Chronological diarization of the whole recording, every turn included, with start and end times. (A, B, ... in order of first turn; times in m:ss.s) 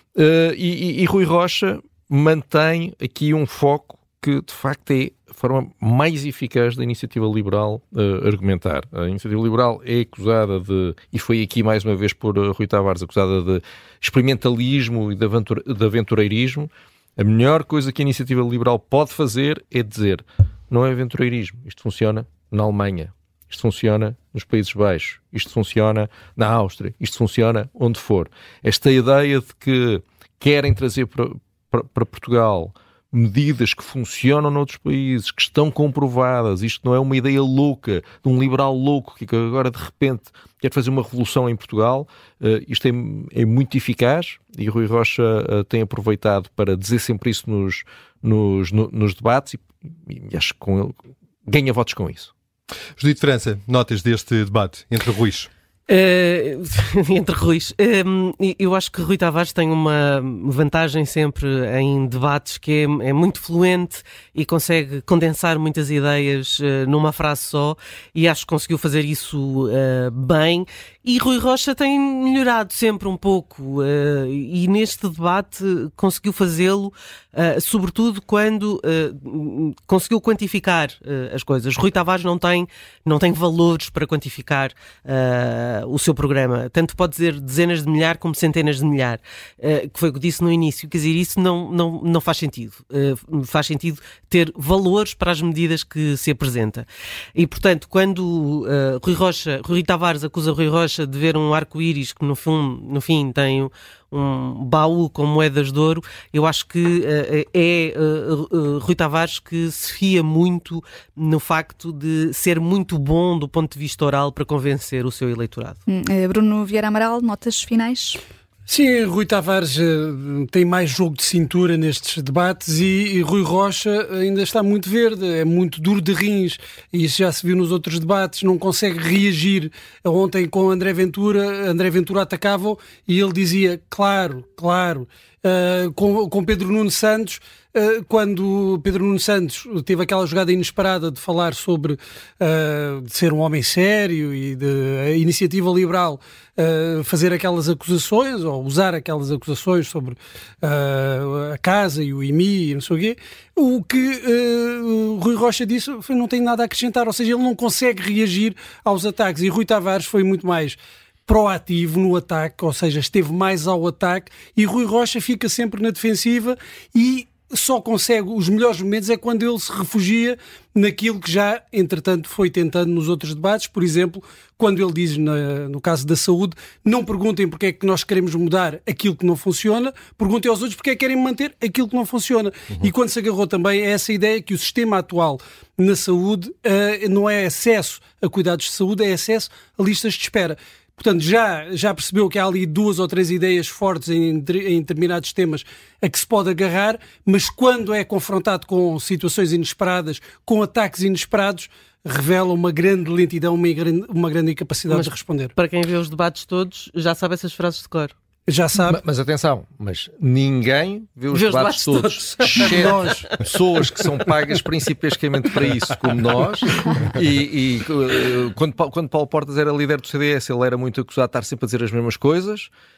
0:00.2-0:52.3 A
0:53.0-0:55.5 B
0:55.9-1:55.8 C
1:55.9-1:58.2 D
1:58.7-3:25.5 E
3:24.9-3:28.1 C
3:28.5-3:29.0 E
3:28.8-3:42.7 A
3:31.3-3:32.5 C
3:31.8-3:33.3 E